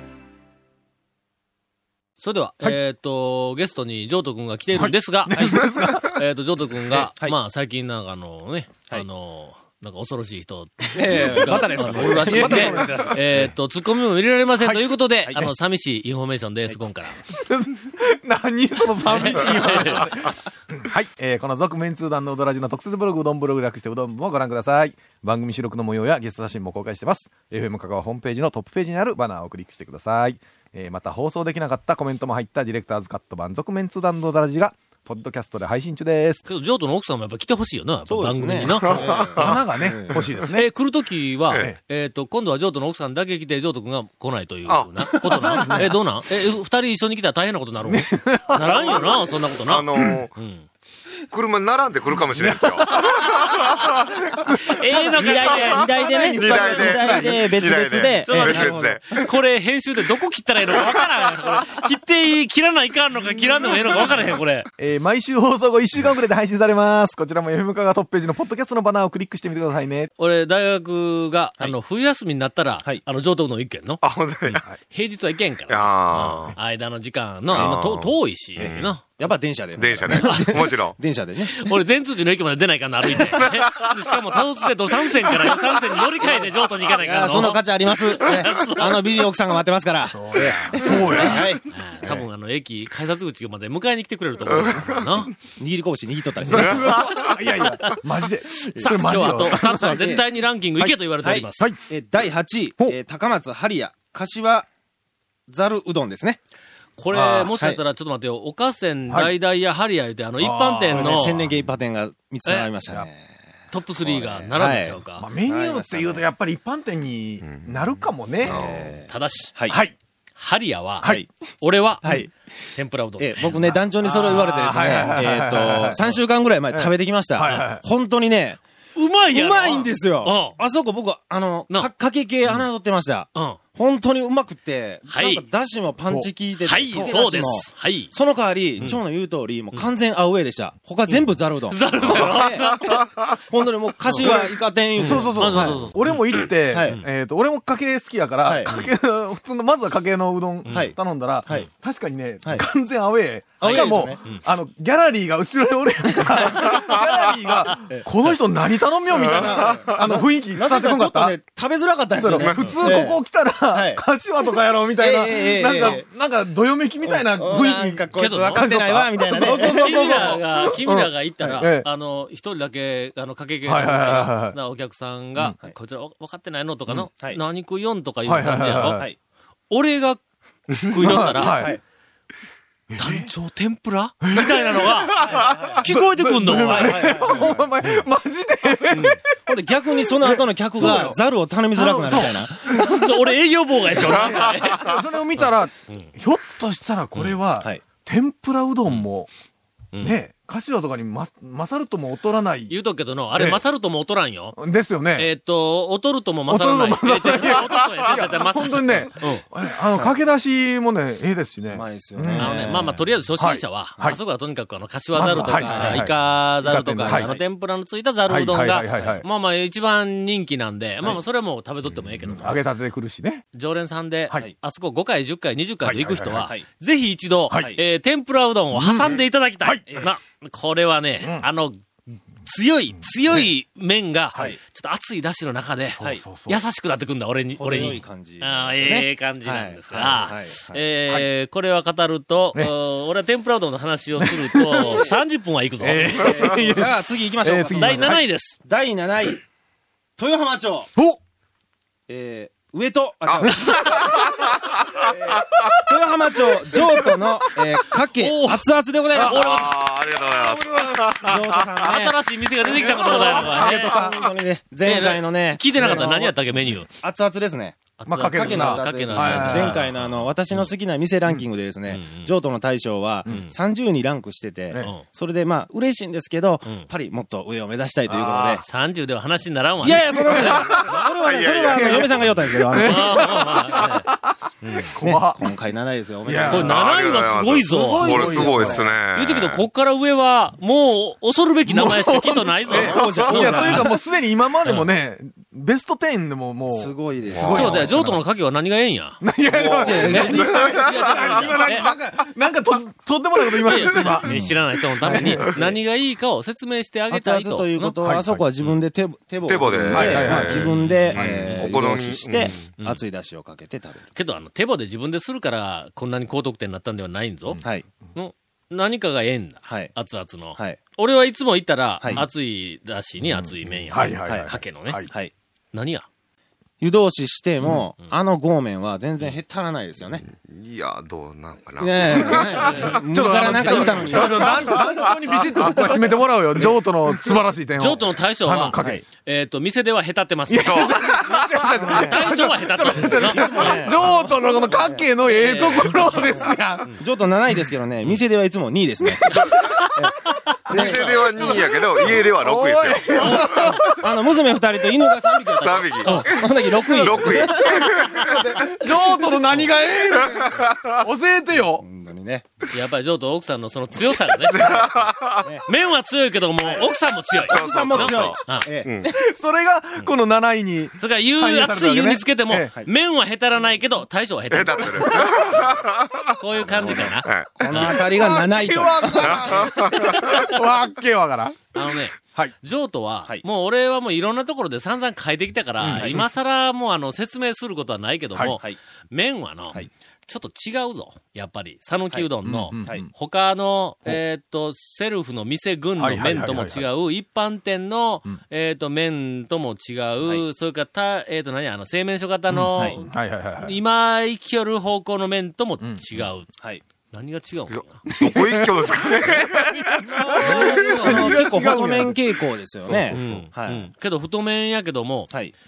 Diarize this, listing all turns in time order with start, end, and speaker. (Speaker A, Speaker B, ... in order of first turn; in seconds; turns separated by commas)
Speaker A: 2.2-17.2, Speaker B: 4.7-6.2, Speaker C: 10.9-13.2, Speaker B: 12.0-13.4, Speaker B: 14.6-14.9, Speaker B: 17.2-36.4, Speaker A: 19.1-20.2, Speaker A: 36.5-39.5, Speaker C: 38.1-40.3, Speaker D: 38.6-40.5, Speaker B: 39.4-40.6, Speaker A: 40.5-50.7, Speaker D: 44.7-45.5, Speaker C: 45.2-45.9, Speaker B: 45.5-45.9, Speaker B: 47.9-49.1, Speaker D: 48.6-50.3, Speaker B: 50.0-50.2, Speaker D: 51.3-54.1, Speaker B: 52.2-53.1, Speaker A: 52.9-53.6, Speaker B: 54.4-55.5, Speaker A: 54.6-56.0, Speaker C: 54.8-59.0, Speaker D: 55.5-59.3, Speaker B: 56.1-57.4, Speaker A: 58.2-64.7, Speaker D: 60.7-61.0, Speaker B: 64.8-70.1, Speaker A: 70.2-79.3, Speaker D: 74.0-74.6, Speaker D: 75.7-76.6, Speaker D: 77.5-79.0, Speaker C: 78.6-81.5, Speaker D: 79.8-81.0, Speaker A: 80.1-80.7, Speaker A: 81.4-89.2, Speaker D: 83.2-84.0, Speaker C: 87.0-92.2, Speaker B: 90.0-91.6, Speaker A: 90.4-95.3, Speaker D: 94.5-95.0, Speaker C: 95.6-97.2, Speaker B: 96.4-100.0, Speaker A: 97.6-101.7, Speaker C: 99.5-100.2, Speaker C: 101.2-104.7, Speaker C: 105.5-106.4, Speaker A: 107.0-111.5, Speaker B: 107.1-107.5, Speaker C: 107.5-107.8, Speaker B: 109.1-109.3, Speaker B: 110.4-111.4, Speaker C: 110.9-113.3, Speaker A: 112.5-112.7, Speaker A: 113.7-115.3, Speaker C: 114.0-116.2, Speaker B: 115.1-118.6, Speaker D: 117.4-119.0, Speaker C: 118.4-119.8, Speaker A: 119.1-119.6, Speaker B: 119.7-120.0, Speaker A: 120.4-125.2, Speaker C: 121.0-121.3, Speaker C: 122.0-122.3, Speaker C: 123.2-128.6, Speaker B: 124.2-126.1, Speaker B: 126.7-127.8, Speaker A: 128.9-130.6, Speaker C: 129.3-145.9, Speaker A: 133.3-133.6, Speaker A: 135.1-135.4, Speaker B: 136.0-136.3, Speaker A: 136.6-138.2, Speaker A: 138.8-139.0, Speaker A: 141.1-143.1, Speaker A: 144.0-144.3, Speaker B: 144.1-161.4, Speaker A: 144.9-147.1, Speaker C: 146.6-147.0, Speaker C: 148.4-148.7, Speaker A: 148.7-148.9, Speaker A: 150.7-151.0, Speaker C: 150.7-151.7, Speaker C: 152.4-152.7, Speaker C: 153.6-154.2, Speaker A: 153.6-154.5, Speaker C: 156.2-156.7, Speaker D: 156.7-157.1, Speaker A: 157.7-158.4, Speaker C: 159.1-164.1, Speaker D: 159.2-160.1, Speaker B: 162.2-171.9, Speaker D: 162.4-162.8, Speaker C: 165.0-166.0, Speaker C: 167.0-170.4, Speaker A: 168.1-168.7, Speaker A: 169.4-179.1, Speaker B: 173.6-174.6, Speaker B: 178.2-179.1, Speaker A: 179.7-180.2, Speaker A: 180.8-181.8, Speaker B: 181.0-181.8, Speaker B: 182.9-183.3, Speaker A: 183.0-188.0, Speaker B: 184.2-185.0, Speaker C: 185.2-185.8, Speaker B: 185.9-189.4, Speaker C: 186.5-187.7, Speaker A: 188.9-189.2, Speaker C: 189.5-192.8, Speaker B: 189.9-191.2, Speaker A: 190.8-191.1, Speaker B: 191.7-192.9, Speaker A: 192.5-196.1, Speaker B: 194.0-199.3, Speaker D: 194.4-194.8, Speaker A: 197.1-197.4, Speaker A: 199.9-200.2, Speaker B: 200.0-202.8, Speaker A: 202.7-204.6, Speaker B: 203.3-203.6, Speaker B: 204.6-205.3, Speaker A: 205.1-209.4, Speaker B: 206.5-212.6, Speaker C: 211.7-213.0, Speaker A: 212.4-222.6, Speaker B: 213.4-214.2, Speaker B: 215.1-217.3, Speaker C: 215.3-216.0, Speaker C: 217.1-217.4, Speaker B: 218.3-219.2, Speaker B: 222.2-223.4, Speaker A: 223.5-231.8, Speaker B: 225.8-226.5, Speaker B: 227.5-227.8, Speaker B: 228.7-229.9, Speaker C: 229.9-230.1, Speaker B: 231.2-231.5, Speaker A: 232.4-246.6, Speaker B: 236.1-236.6, Speaker C: 237.5-240.8, Speaker B: 244.2-244.9, Speaker B: 245.8-248.2, Speaker C: 246.2-249.4, Speaker A: 247.8-248.6, Speaker C: 250.2-250.9, Speaker C: 252.1-254.4, Speaker D: 253.3-255.3, Speaker B: 253.3-254.1, Speaker C: 254.9-262.2, Speaker B: 256.5-257.8, Speaker A: 258.1-259.7, Speaker B: 259.1-259.5, Speaker D: 259.3-261.9, Speaker A: 261.8-264.1, Speaker B: 262.7-263.7, Speaker C: 263.1-266.3, Speaker D: 263.7-264.2, Speaker A: 264.8-266.9, Speaker B: 265.8-266.3, Speaker C: 267.0-278.6, Speaker A: 268.0-270.7, Speaker B: 268.1-269.8, Speaker A: 271.9-272.3, Speaker A: 273.3-273.5, Speaker A: 274.8-275.1, Speaker B: 278.1-278.6, Speaker A: 278.6-280.6, Speaker C: 279.8-283.3, Speaker D: 280.4-282.4, Speaker B: 281.6-282.2, Speaker B: 282.7-285.4, Speaker A: 282.8-284.1, Speaker A: 284.6-284.9, Speaker C: 285.0-286.9, Speaker B: 286.2-286.7, Speaker A: 286.4-293.9, Speaker D: 286.5-289.6, Speaker C: 287.7-288.9, Speaker B: 287.7-288.8, Speaker B: 291.6-298.2, Speaker C: 292.7-293.9, Speaker D: 293.1-293.5, Speaker C: 296.7-297.9, Speaker D: 297.2-297.9, Speaker A: 297.5-299.2, Speaker B: 299.2-304.3, Speaker C: 299.5-300.5, Speaker A: 299.9-301.9, Speaker D: 300.2-301.4, Speaker A: 303.6-307.9, Speaker C: 304.2-305.8, Speaker B: 305.0-305.4, Speaker C: 307.1-314.1, Speaker B: 308.0-308.4, Speaker D: 309.4-312.7, Speaker B: 309.9-311.6, Speaker A: 314.1-317.6, Speaker A: 318.1-325.1, Speaker C: 319.6-319.9, Speaker C: 322.0-322.3, Speaker B: 323.2-325.1, Speaker C: 324.2-324.5, Speaker A: 325.7-326.1, Speaker C: 326.8-330.2, Speaker D: 330.1-333.0, Speaker C: 331.8-334.8, Speaker A: 332.4-334.7, Speaker B: 333.0-339.0, Speaker D: 334.0-335.9, Speaker A: 337.8-341.0, Speaker B: 340.5-346.9, Speaker D: 340.6-341.8, Speaker C: 341.8-342.3, Speaker A: 341.9-344.1, Speaker C: 343.0-345.1, Speaker A: 345.3-347.0, Speaker C: 347.0-349.4, Speaker B: 349.1-349.8, Speaker D: 349.2-349.6, Speaker B: 350.7-351.2, Speaker C: 350.7-351.6, Speaker D: 350.7-353.8, Speaker A: 351.1-351.5, Speaker B: 352.0-354.1, Speaker A: 353.1-353.9, Speaker C: 354.0-357.9, Speaker D: 355.3-358.4, Speaker A: 356.0-356.6, Speaker A: 357.5-358.2, Speaker B: 358.3-361.8, Speaker D: 360.2-360.9, Speaker C: 361.5-362.5, Speaker A: 362.7-364.6, Speaker D: 364.0-365.5, Speaker C: 364.6-365.6, Speaker A: 365.6-368.7, Speaker C: 366.6-366.9, Speaker D: 367.4-369.1, Speaker C: 367.4-369.1, Speaker B: 369.1-372.7, Speaker A: 371.0-377.3, Speaker D: 374.5-378.1, Speaker C: 376.6-379.7, Speaker B: 377.7-382.5, Speaker D: 379.2-380.5, Speaker A: 379.9-380.5, Speaker A: 381.7-406.5, Speaker B: 385.8-386.2, Speaker C: 392.1-393.1, Speaker B: 392.4-393.1, Speaker B: 396.0-396.9, Speaker B: 402.5-403.8, Speaker C: 406.6-406.8, Speaker A: 407.1-408.0, Speaker D: 407.7-410.3, Speaker B: 408.1-413.2, Speaker C: 410.1-413.9, Speaker A: 410.4-411.4, Speaker D: 413.0-413.5, Speaker A: 413.1-415.4